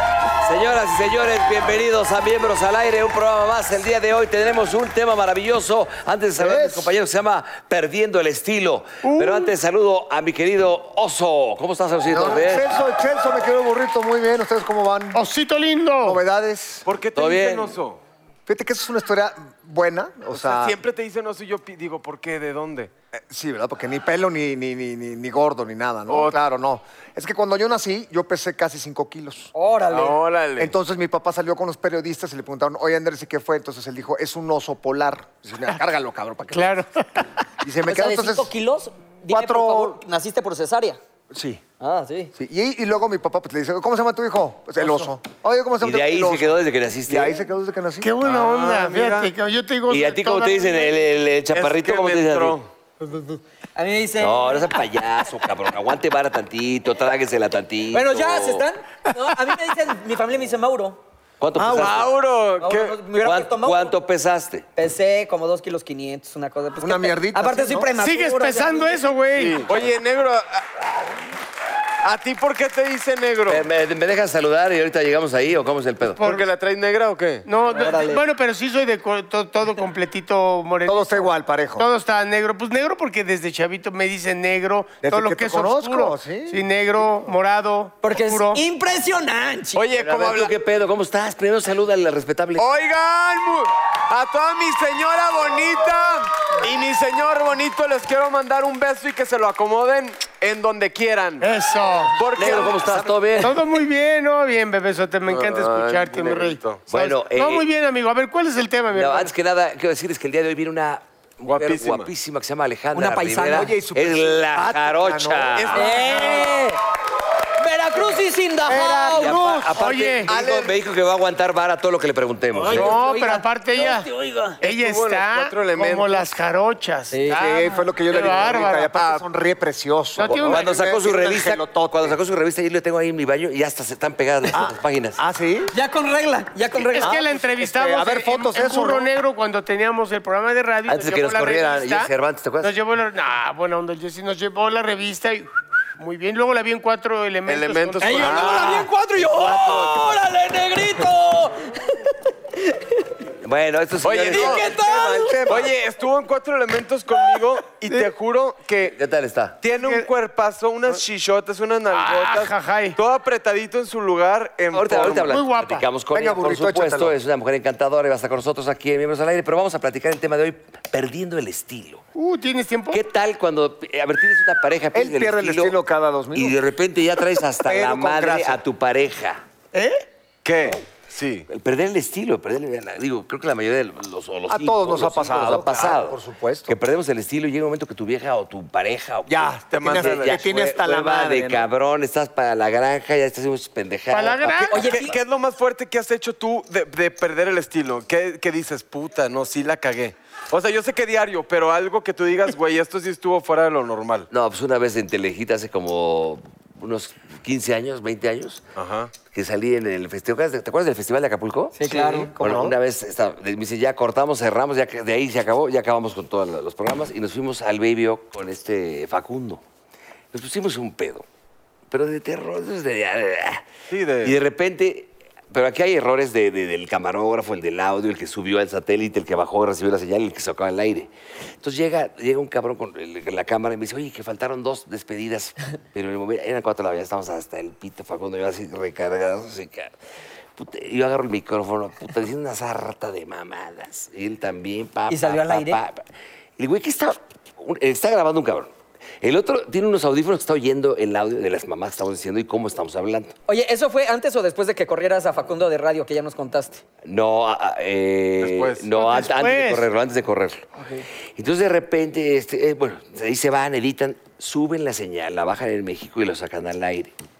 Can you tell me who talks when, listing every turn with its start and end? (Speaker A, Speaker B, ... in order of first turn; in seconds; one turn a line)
Speaker A: 0.4-12.7
Speaker B: 6.4-6.9
Speaker C: 9.0-9.5
Speaker B: 12.1-15.2
Speaker C: 15.1-16.2
Speaker B: 16.0-16.8
Speaker D: 16.9-18.0
Speaker A: 17.1-17.7
Speaker B: 18.4-20.8
Speaker D: 20.3-22.9
Speaker B: 23.2-29.5
Speaker D: 26.1-26.4
Speaker E: 29.5-30.2
Speaker D: 29.9-30.7
Speaker B: 30.6-36.8
Speaker C: 36.5-37.2
Speaker B: 37.6-38.5
Speaker E: 37.9-41.0
Speaker B: 39.3-40.0
Speaker B: 41.3-41.6
Speaker E: 41.8-42.3
Speaker B: 42.4-48.1
Speaker C: 44.8-45.1
Speaker A: 45.8-47.4
Speaker C: 48.0-51.0
Speaker D: 48.2-49.3
Speaker A: 49.9-52.6
Speaker D: 51.5-52.7
Speaker E: 53.1-54.8
Speaker A: 54.2-58.6
Speaker E: 57.9-61.0
Speaker A: 61.4-62.1
Speaker B: 61.5-62.0
Speaker D: 61.7-63.0
Speaker E: 62.6-63.9
Speaker A: 63.2-64.7
Speaker E: 64.8-68.9
Speaker B: 66.8-67.9
Speaker C: 67.9-69.7
Speaker D: 69.3-70.6
Speaker D: 72.0-73.6
Speaker A: 73.5-76.2
Speaker D: 76.2-77.5
Speaker C: 76.2-76.5
Speaker C: 77.5-88.6
Speaker E: 77.7-78.2
Speaker B: 80.8-81.9
Speaker B: 85.0-86.6
Speaker E: 88.0-89.8
Speaker D: 89.7-90.5
Speaker A: 90.0-92.6
Speaker D: 92.5-101.5
Speaker C: 101.4-102.5
Speaker D: 102.1-103.1
Speaker A: 102.3-103.6
Speaker C: 103.4-109.3
Speaker D: 105.3-106.9
Speaker A: 106.9-107.7
Speaker A: 108.9-115.9
Speaker D: 111.5-112.1
Speaker E: 112.9-113.7
Speaker B: 113.5-115.7
Speaker D: 115.5-116.5
Speaker E: 115.7-116.8
Speaker E: 117.6-119.4
Speaker B: 118.7-119.8
Speaker A: 119.1-122.9
Speaker C: 119.7-120.3
Speaker D: 120.3-120.7
Speaker E: 122.6-124.6
Speaker C: 122.7-124.1
Speaker C: 124.6-128.9
Speaker D: 124.6-126.3
Speaker E: 127.1-127.7
Speaker B: 127.3-132.2
Speaker D: 128.9-129.2
Speaker C: 130.2-131.4
Speaker A: 130.2-135.2
Speaker B: 134.5-135.7
Speaker E: 135.7-137.2
Speaker C: 136.9-142.1
Speaker B: 137.0-139.1
Speaker A: 140.9-142.8
Speaker C: 142.6-145.5
Speaker C: 146.0-148.7
Speaker D: 147.5-148.9
Speaker E: 148.0-152.0
Speaker B: 149.3-150.1
Speaker E: 152.7-152.9
Speaker A: 153.4-154.6
Speaker D: 154.0-154.7
Speaker E: 154.3-155.6
Speaker B: 154.6-155.7
Speaker D: 155.4-159.0
Speaker A: 158.8-159.6
Speaker D: 159.6-165.3
Speaker C: 159.8-160.1
Speaker C: 161.9-163.0
Speaker B: 164.6-165.1
Speaker A: 164.7-172.0
Speaker C: 165.2-165.8
Speaker B: 166.1-167.2
Speaker C: 172.2-173.0
Speaker A: 172.9-175.8
Speaker B: 174.9-176.6
Speaker A: 176.3-179.4
Speaker B: 177.6-178.6
Speaker C: 179.7-180.0
Speaker D: 180.4-181.5
Speaker A: 181.5-195.0
Speaker B: 184.5-186.7
Speaker B: 189.3-191.7
Speaker D: 189.7-190.3
Speaker C: 194.1-194.9
Speaker E: 194.7-195.1
Speaker D: 194.8-204.3
Speaker A: 204.3-208.7
Speaker D: 208.8-209.1
Speaker A: 209.3-211.8
Speaker E: 211.8-212.3
Speaker B: 211.8-212.7
Speaker A: 212.4-219.6
Speaker A: 220.3-221.2
Speaker A: 221.9-223.7
Speaker D: 223.9-224.3
Speaker A: 224.2-239.9
Speaker A: 240.6-246.0
Speaker E: 245.1-245.8
Speaker A: 246.6-253.3
Speaker E: 253.5-256.8
Speaker A: 257.0-260.6
Speaker D: 258.4-258.9
Speaker C: 258.9-259.9
Speaker A: 261.4-267.1